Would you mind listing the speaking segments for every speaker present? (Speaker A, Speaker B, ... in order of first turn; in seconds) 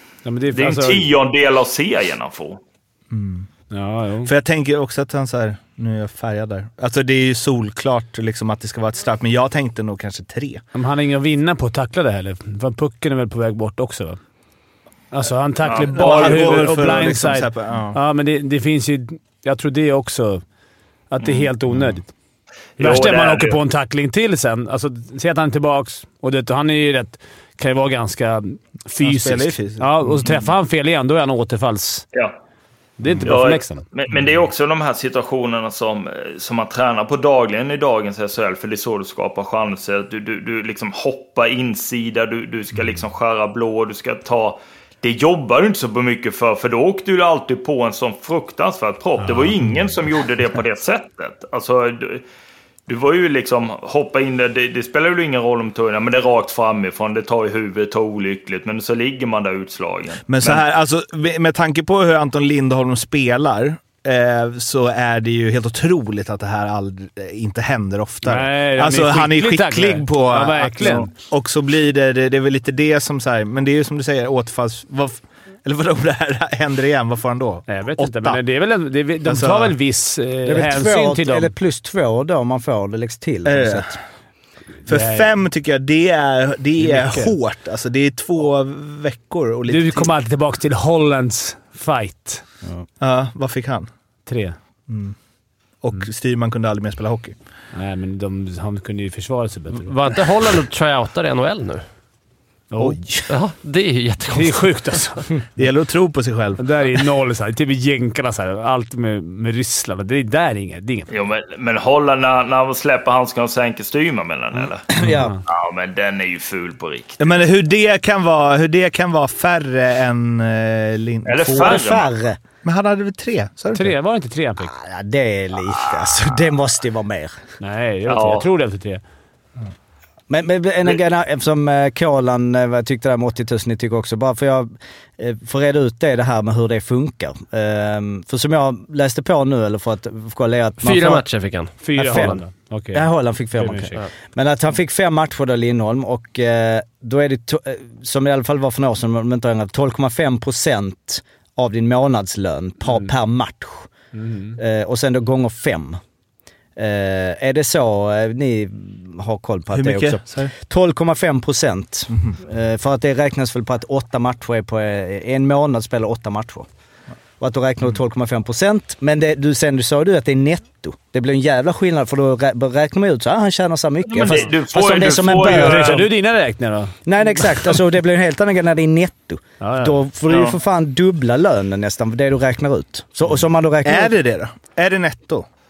Speaker A: 0.2-1.1, 3.7-4.3, 10.7-14.2, 15.1-20.4, 21.1-22.1, 22.8-32.0, 33.0-33.8, 49.2-49.9, 68.2-71.1, 77.7-81.5, 84.9-85.3, 86.8-87.3, 89.7-92.4, 94.3-94.6, 97.7-99.9, 102.7-103.0, 104.3-105.2, 106.6-111.1, 115.0-115.4, 123.7-124.7, 127.6-129.0, 141.8-144.0, 154.1-154.6, 175.4-177.7, 179.6-180.0
Speaker B: 0.5-2.6, 15.7-16.7, 21.2-21.5, 22.8-23.6, 33.3-52.2, 52.9-60.6, 111.1-114.9, 115.5-117.3, 121.2-122.1, 128.1-128.5, 174.1-176.1, 180.3-180.6
Speaker C: 3.1-3.5, 4.2-10.6, 15.9-18.0, 29.0-30.4, 60.3-78.4, 79.2-79.7, 83.5-84.0, 84.9-90.1, 93.0-93.9, 94.9-95.2, 95.8-97.3, 105.6-106.6, 117.2-121.8, 122.6-123.9, 159.7-160.5, 183.8-185.4
Speaker D: 80.5-84.0, 114.9-115.3, 121.6-122.4, 124.6-127.4, 130.3-141.2, 141.9-142.4, 142.9-153.9, 154.6-156.0, 156.8-166.7, 167.4-176.0, 177.1-184.1
Speaker E: 99.8-101.8, 103.3-105.2, 140.8-142.4